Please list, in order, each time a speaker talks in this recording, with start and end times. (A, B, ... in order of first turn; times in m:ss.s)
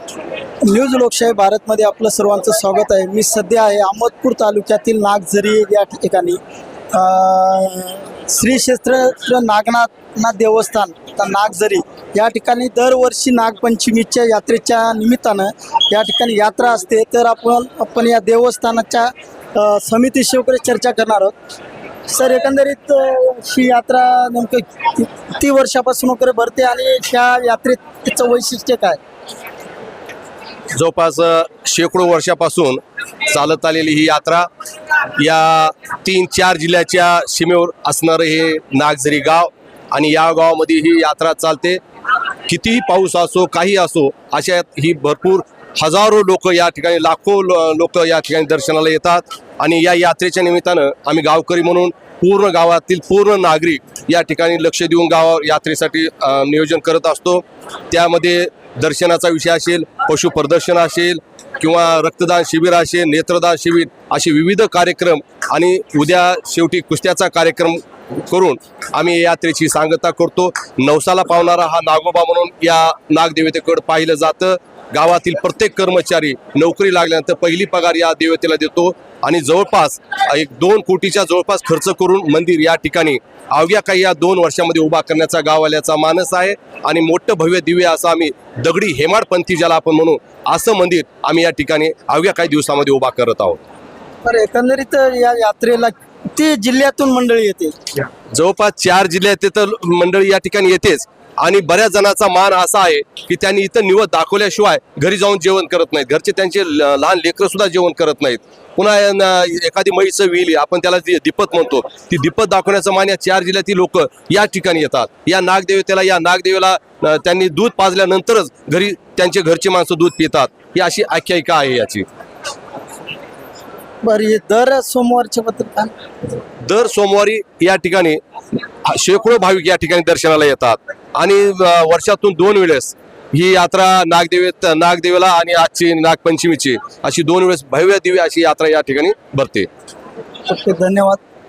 0:00.6-0:06.4 A
0:06.9-0:21.4 A
0:22.1-0:29.0 A
0:30.7-0:41.8 B
0:42.5-1:33.6 B
1:34.2-1:37.8 A
1:38.3-2:02.1 B
2:04.0-2:05.9 A
2:06.6-2:08.2 B
2:08.8-2:19.7 B
2:20.5-2:21.2 A